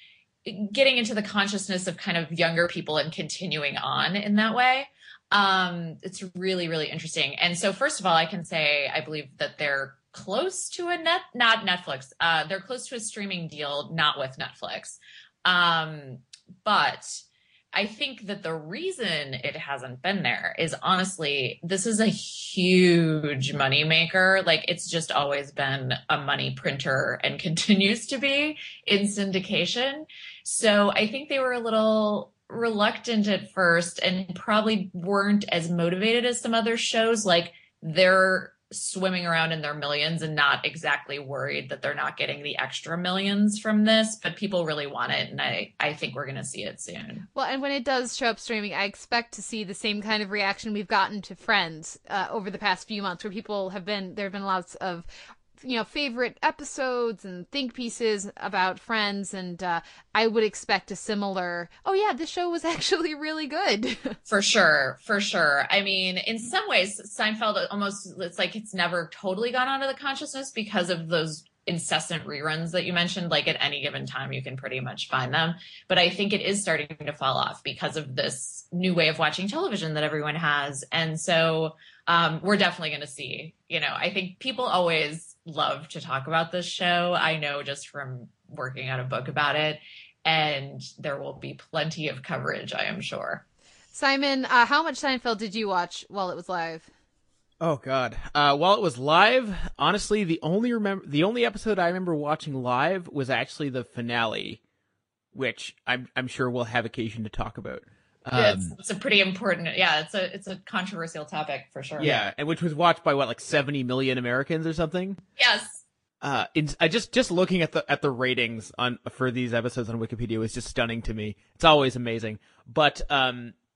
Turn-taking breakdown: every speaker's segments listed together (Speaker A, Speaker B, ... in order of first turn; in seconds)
Speaker A: 0.5-47.2, 64.3-93.4, 108.3-112.3, 115.4-115.8
Speaker B: 47.3-64.2, 93.9-96.9
Speaker C: 97.6-104.6, 105.3-108.7, 112.0-115.2, 116.2-123.5